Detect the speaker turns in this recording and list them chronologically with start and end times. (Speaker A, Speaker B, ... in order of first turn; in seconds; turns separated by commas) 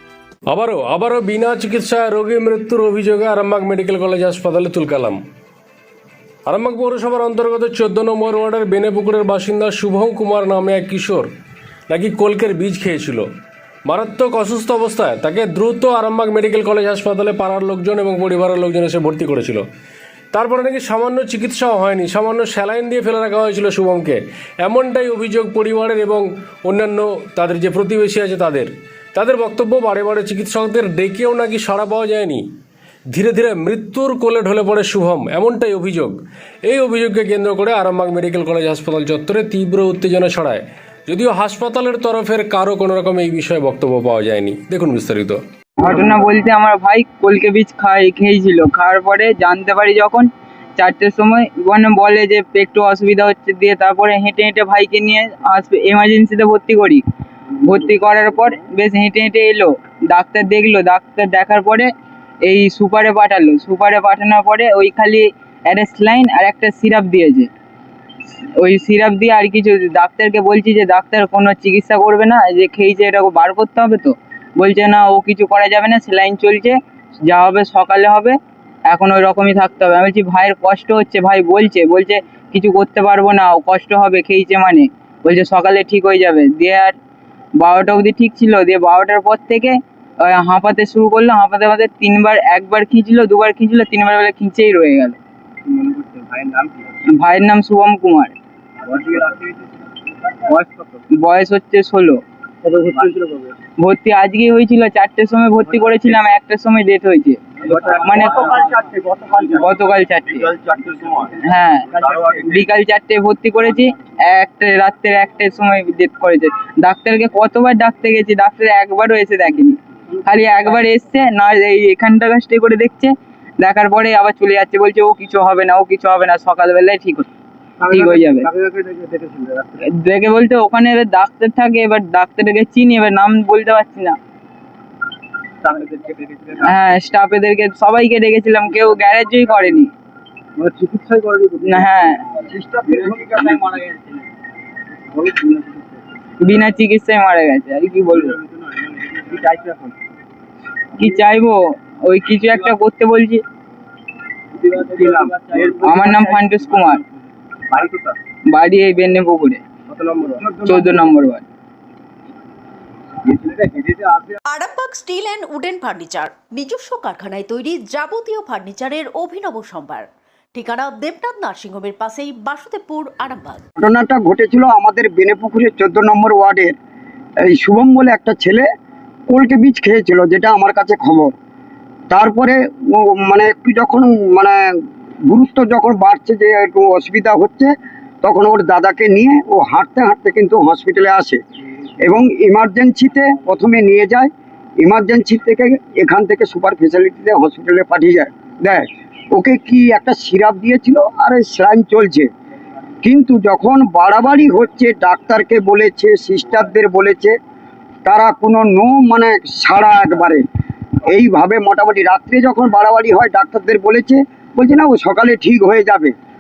Speaker A: 0.5-5.2, Speaker A: 6.5-11.3, Speaker A: 11.9-13.2, Speaker A: 13.9-19.6, Speaker A: 20.3-32.5, Speaker A: 33.1-45.4, Speaker B: 45.8-57.0, Speaker B: 57.6-61.9, Speaker B: 62.4-67.5, Speaker B: 68.6-78.4, Speaker B: 78.9-87.0, Speaker B: 87.6-95.2, Speaker C: 95.7-96.6, Speaker B: 97.1-98.3, Speaker C: 98.9-99.4, Speaker B: 101.2-102.2, Speaker C: 102.6-103.5, Speaker B: 103.8-108.8, Speaker B: 109.3-110.6, Speaker B: 111.5-127.3, Speaker C: 127.8-129.8, Speaker B: 127.9-128.5, Speaker B: 129.8-134.2, Speaker C: 135.6-136.7, Speaker B: 136.6-139.9, Speaker C: 140.6-141.9, Speaker B: 141.6-142.2, Speaker D: 142.5-143.8, Speaker C: 143.0-143.5, Speaker C: 145.2-145.8, Speaker B: 146.4-148.4, Speaker C: 149.3-149.8, Speaker B: 151.0-153.4, Speaker B: 155.0-157.0, Speaker C: 155.0-156.3, Speaker B: 158.5-159.6, Speaker C: 159.9-160.8, Speaker B: 160.6-161.4, Speaker C: 163.5-164.2, Speaker E: 164.5-173.6, Speaker D: 173.8-176.8, Speaker D: 177.5-178.7, Speaker D: 179.3-181.3, Speaker D: 182.1-184.6, Speaker D: 185.3-187.7, Speaker D: 188.2-191.4, Speaker D: 192.0-194.3, Speaker D: 194.8-202.3, Speaker D: 203.0-207.4, Speaker D: 208.1-210.4, Speaker D: 211.1-216.1